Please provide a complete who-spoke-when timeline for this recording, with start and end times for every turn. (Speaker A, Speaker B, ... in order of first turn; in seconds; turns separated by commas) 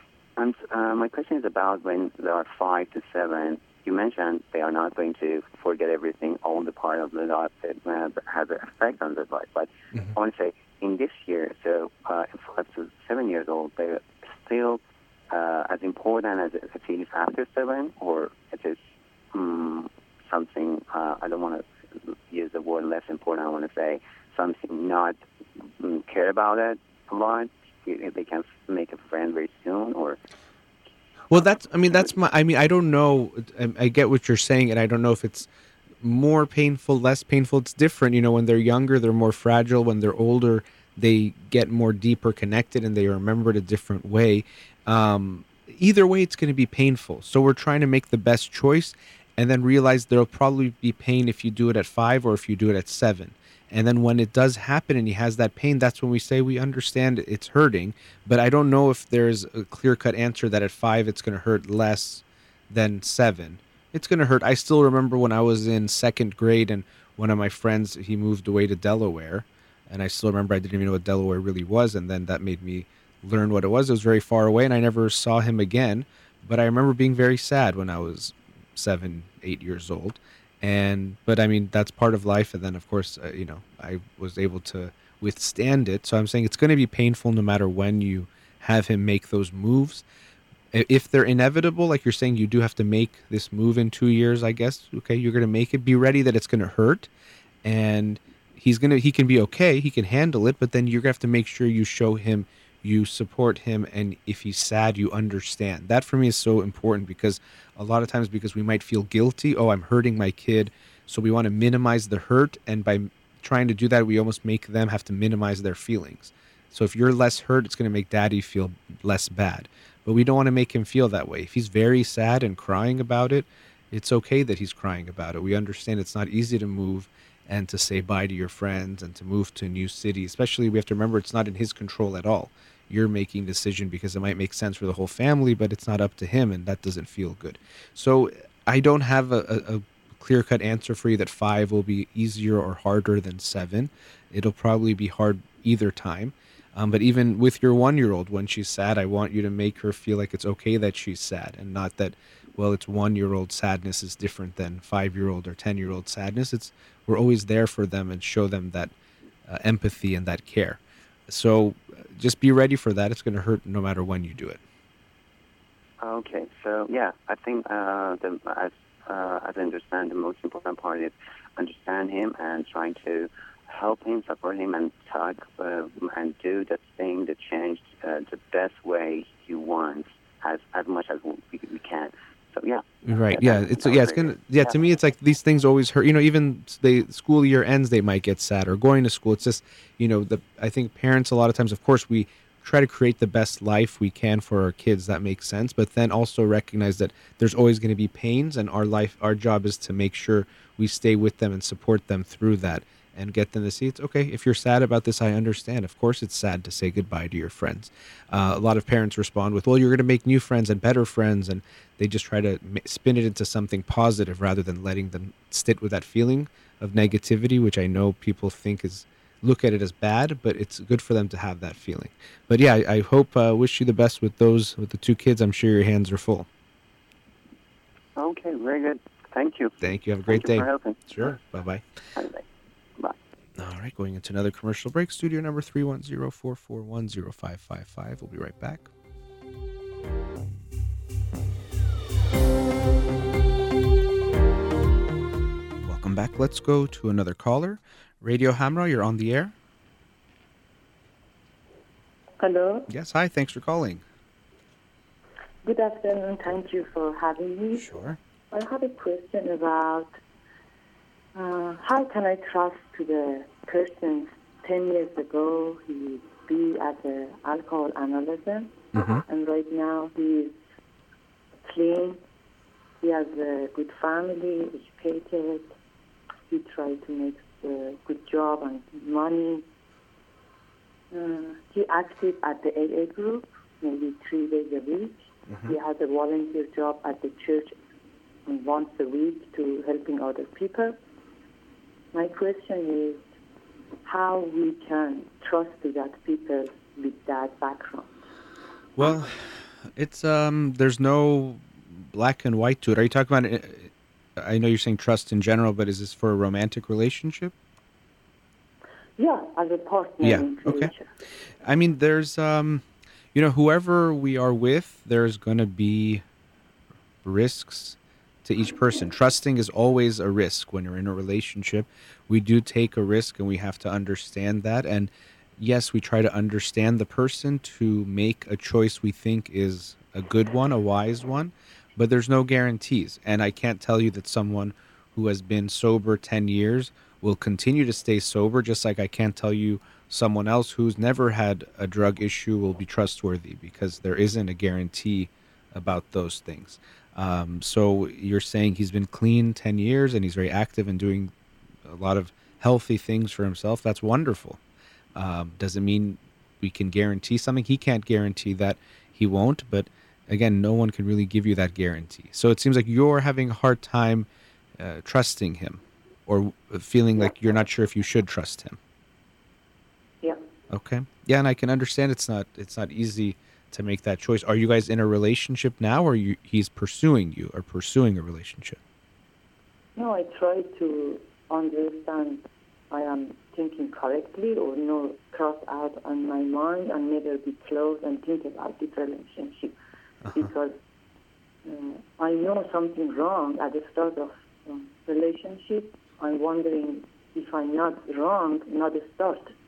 Speaker A: 0.4-30.2, Speaker B: 31.3-35.5, Speaker B: 36.0-90.0, Speaker B: 90.7-97.1, Speaker B: 97.6-158.9, Speaker B: 159.5-164.6, Speaker A: 166.0-184.4, Speaker B: 183.1-226.5, Speaker A: 228.2-229.8, Speaker B: 229.8-231.8, Speaker A: 230.3-231.1, Speaker A: 232.2-232.4, Speaker B: 233.6-238.9, Speaker B: 245.8-249.5, Speaker C: 252.4-252.9, Speaker B: 252.9-254.0, Speaker C: 255.6-257.9, Speaker B: 257.7-258.2, Speaker C: 258.5-260.1, Speaker C: 261.4-270.5, Speaker C: 271.7-272.2, Speaker C: 273.0-275.7, Speaker C: 276.5-279.6, Speaker C: 281.1-287.7, Speaker B: 285.5-285.7, Speaker C: 288.4-291.0, Speaker C: 292.1-293.2, Speaker C: 294.1-298.1, Speaker B: 299.0-299.4, Speaker B: 300.0-307.5, Speaker C: 309.2-311.1, Speaker B: 310.2-310.9, Speaker B: 311.6-316.2, Speaker B: 317.2-351.3, Speaker B: 351.9-354.6, Speaker B: 355.1-364.3, Speaker B: 364.8-368.8, Speaker B: 370.7-378.8, Speaker C: 380.0-389.8, Speaker B: 390.2-390.5, Speaker C: 390.3-390.8, Speaker C: 391.6-399.5